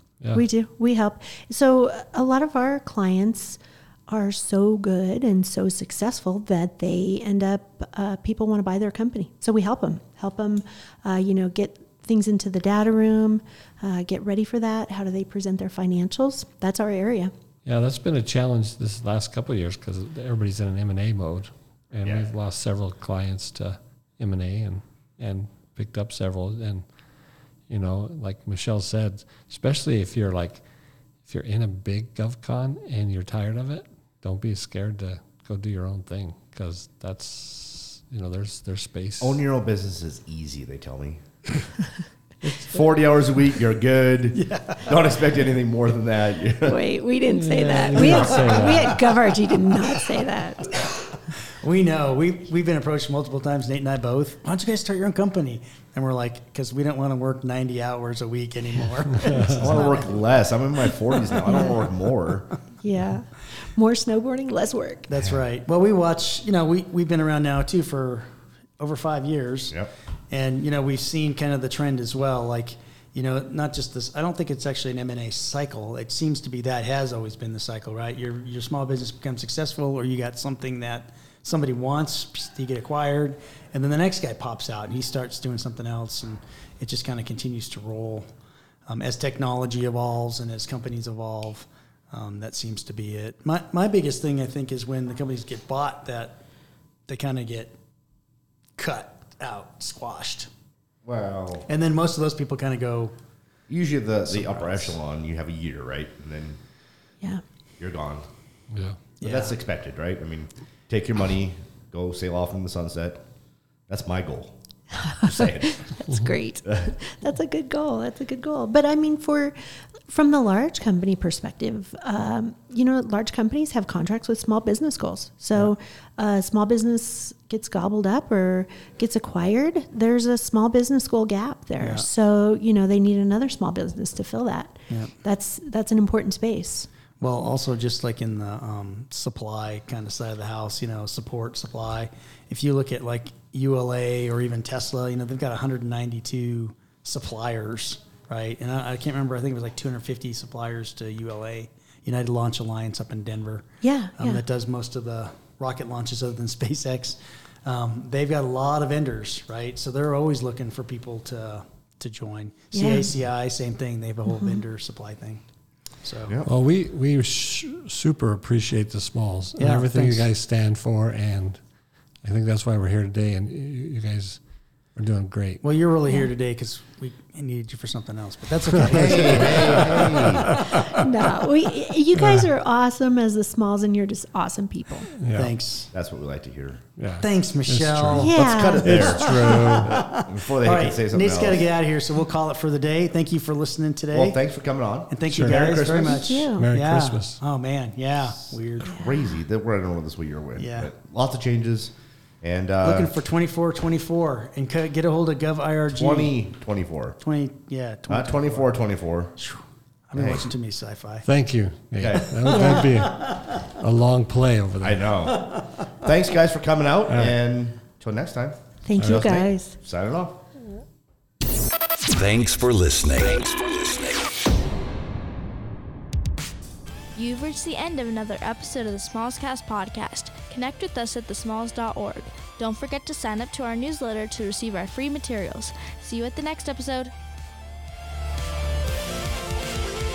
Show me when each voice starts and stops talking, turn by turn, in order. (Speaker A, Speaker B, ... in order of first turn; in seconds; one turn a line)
Speaker A: 0.3-17.3
Speaker B: 17.7-26.9
Speaker C: 22.0-22.3
Speaker B: 27.7-30.6
Speaker B: 31.3-39.4
Speaker C: 39.2-41.2
Speaker B: 42.4-42.8
Speaker C: 42.5-47.0
Speaker D: 44.3-44.9
Speaker A: 46.6-50.8
Speaker B: 47.3-49.1
Speaker D: 47.5-48.9
Speaker D: 50.7-51.0
Speaker D: 51.6-60.1
Speaker C: 59.6-62.5
Speaker A: 59.8-60.0
Speaker A: 61.5-61.8
Speaker A: 62.8-65.1
Speaker D: 65.1-69.8
Speaker D: 70.3-88.3
Speaker D: 88.9-96.4
Speaker D: 97.1-97.8
Speaker D: 98.8-100.5
Speaker C: 101.0-101.7
Speaker D: 101.7-103.1
Speaker C: 103.7-106.6
Speaker D: 104.3-104.9
Speaker C: 107.8-108.3
Speaker B: 108.7-109.0
Speaker D: 109.2-109.5
Speaker C: 109.2-113.2
Speaker C: 113.9-114.6
Speaker A: 115.0-119.6
Speaker C: 115.2-115.8
Speaker C: 116.7-117.0
Speaker A: 120.1-136.9
Speaker D: 131.8-132.1
Speaker D: 137.2-165.4
Speaker A: 153.8-154.4
Speaker A: 162.7-163.1
Speaker A: 164.3-164.6
Speaker D: 166.0-166.4
Speaker B: 166.4-171.6
Speaker D: 169.6-170.3
Speaker B: 172.2-174.4
Speaker B: 175.0-175.6
Speaker D: 175.6-180.7
Speaker C: 178.8-180.7
Speaker B: 179.1-181.0
Speaker A: 180.9-185.1
Speaker B: 182.1-182.5
Speaker B: 185.2-185.5
Speaker D: 185.3-185.9
Speaker C: 185.9-186.8
Speaker B: 187.0-190.0
Speaker D: 187.2-188.4
Speaker A: 188.2-189.2
Speaker C: 188.3-191.7
Speaker D: 188.9-194.4
Speaker C: 194.1-196.4
Speaker D: 195.1-199.0
Speaker A: 195.9-196.7
Speaker B: 196.6-197.4
Speaker C: 198.8-203.2
Speaker A: 198.9-199.2
Speaker D: 200.6-200.9
Speaker D: 202.8-206.4
Speaker C: 205.9-207.2
Speaker D: 207.2-208.7
Speaker C: 208.1-209.4
Speaker D: 209.4-211.3
Speaker C: 210.2-210.5
Speaker B: 211.2-215.1
Speaker C: 212.0-212.5
Speaker D: 212.2-213.3
Speaker A: 212.5-212.9
Speaker C: 214.8-220.4
Speaker B: 217.1-217.4
Speaker A: 218.8-219.7
Speaker B: 219.0-219.3
Speaker E: 222.1-224.3
Speaker F: 227.2-237.1